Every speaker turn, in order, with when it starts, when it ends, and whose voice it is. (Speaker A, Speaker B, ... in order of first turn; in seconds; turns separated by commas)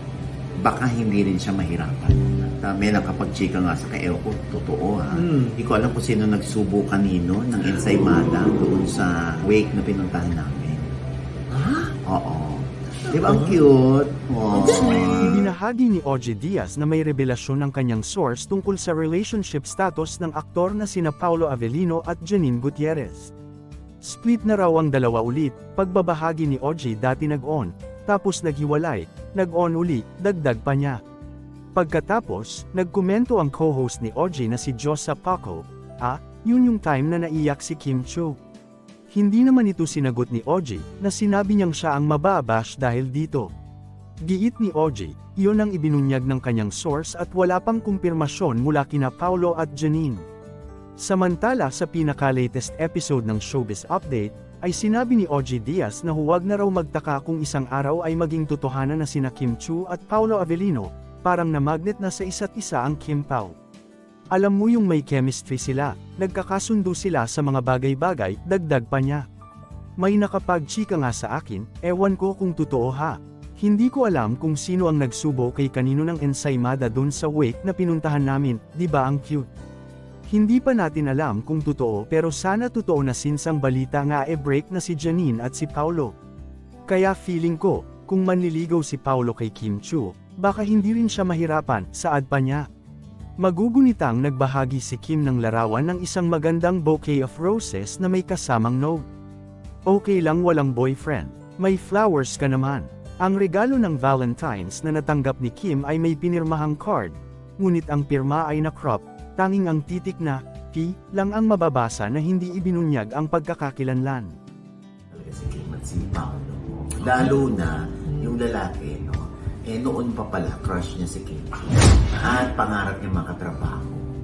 Speaker A: 0.6-10.9, Speaker B: 5.1-5.6, Speaker B: 11.5-11.8, Speaker A: 11.9-15.4, Speaker B: 13.1-13.6, Speaker B: 14.6-15.2, Speaker C: 15.0-23.3, Speaker C: 24.0-31.0, Speaker C: 31.7-38.4, Speaker C: 39.1-43.5, Speaker C: 44.2-50.2, Speaker C: 51.0-63.5, Speaker C: 64.3-69.2, Speaker C: 70.0-79.5, Speaker C: 80.3-86.1, Speaker C: 86.9-92.7, Speaker C: 93.4-99.0, Speaker C: 99.8-114.3, Speaker A: 115.1-124.1